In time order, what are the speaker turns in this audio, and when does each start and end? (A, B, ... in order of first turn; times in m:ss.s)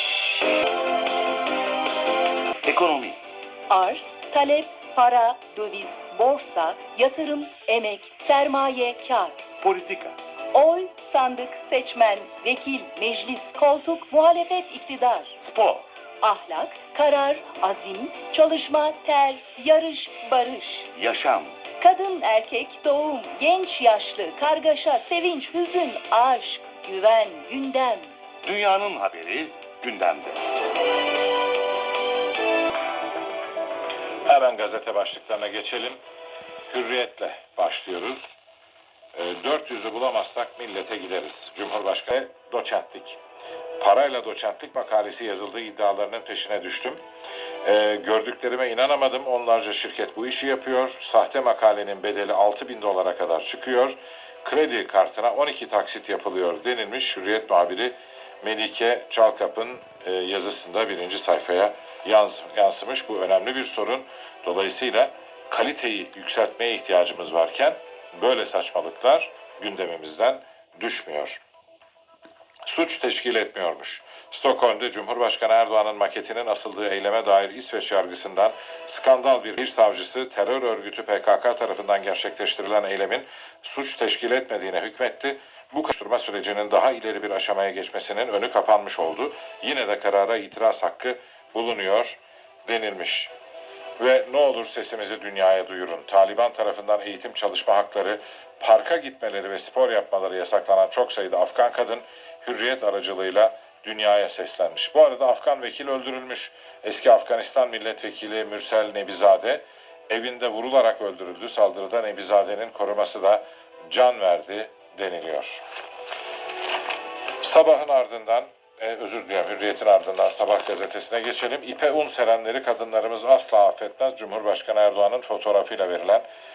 0:02.6-0:03.2 A
0:03.7-0:09.4 B
0:09.6-0:10.2 A
0:10.5-0:15.4 B
0:15.4-0:15.9 A
0:16.2-0:20.9 B
0:20.9-0:21.6 A
0:21.8-0:28.1 B
0:28.4-0:30.4 A
0:34.2-0:36.0 C
0:36.7-0:38.4 C
0:39.1-0:43.2 C
0:43.8-0:47.0 C
0:47.6-1:11.4 C
1:12.7-1:33.3 C
1:34.0-1:55.6 C
1:57.4-2:06.2 C